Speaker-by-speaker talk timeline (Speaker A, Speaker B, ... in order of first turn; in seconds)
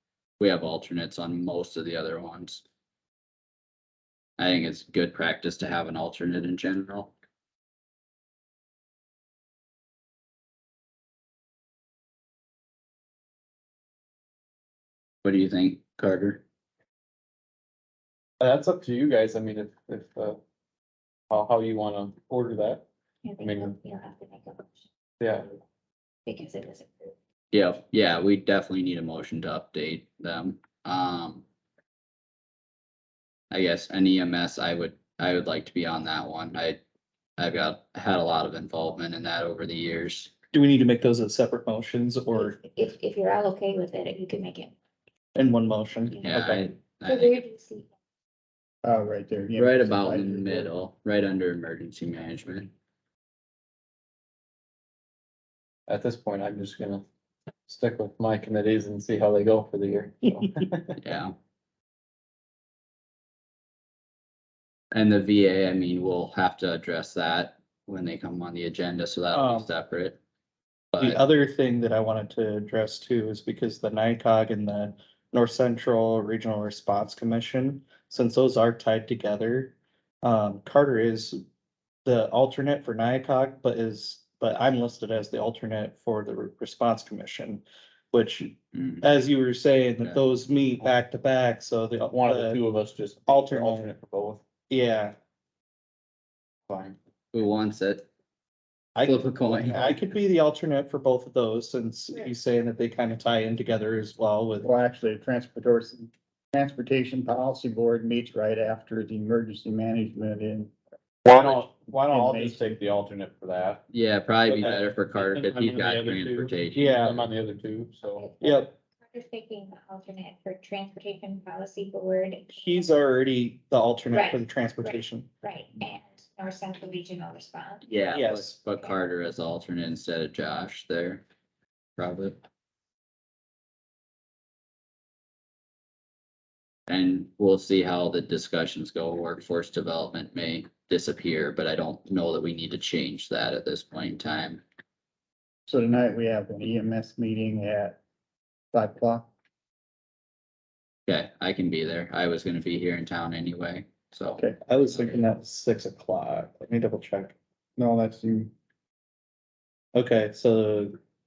Speaker A: 0.4-2.6, 4.4-7.1, 15.2-16.4, 27.5-31.4, 33.5-36.8, 37.4-40.3, 46.2-47.4, 49.6-52.7, 61.0-61.4, 64.9-70.2, 70.9-71.2, 88.7-89.0, 97.3-98.1, 99.0-100.0, 113.9-117.0, 127.9-131.2, 132.0-132.4, 136.9-144.6, 151.1-155.2
Speaker B: 18.4-20.4, 21.3-22.8, 23.4-23.8, 25.2-25.5, 55.9-57.0, 57.7-60.9, 92.1-94.4, 96.7-97.0, 111.2-113.8, 114.5-118.6
Speaker C: 23.2-24.9, 26.3-27.1, 42.4-44.7, 47.1-47.9, 118.2-118.5, 119.1-122.9, 124.1-127.8
Speaker D: 40.5-42.6, 45.4-46.7, 69.3-69.7, 71.0-81.4, 82.0-92.6, 93.3-93.9, 94.7-95.2, 99.0-104.7, 116.8-117.2, 118.4-118.7, 122.6-125.3, 128.1-128.6, 154.7-157.4, 159.9-161.0
Speaker E: 48.8-50.7, 104.6-110.7, 111.3-112.8, 145.7-148.0, 148.7-149.3, 157.8-158.5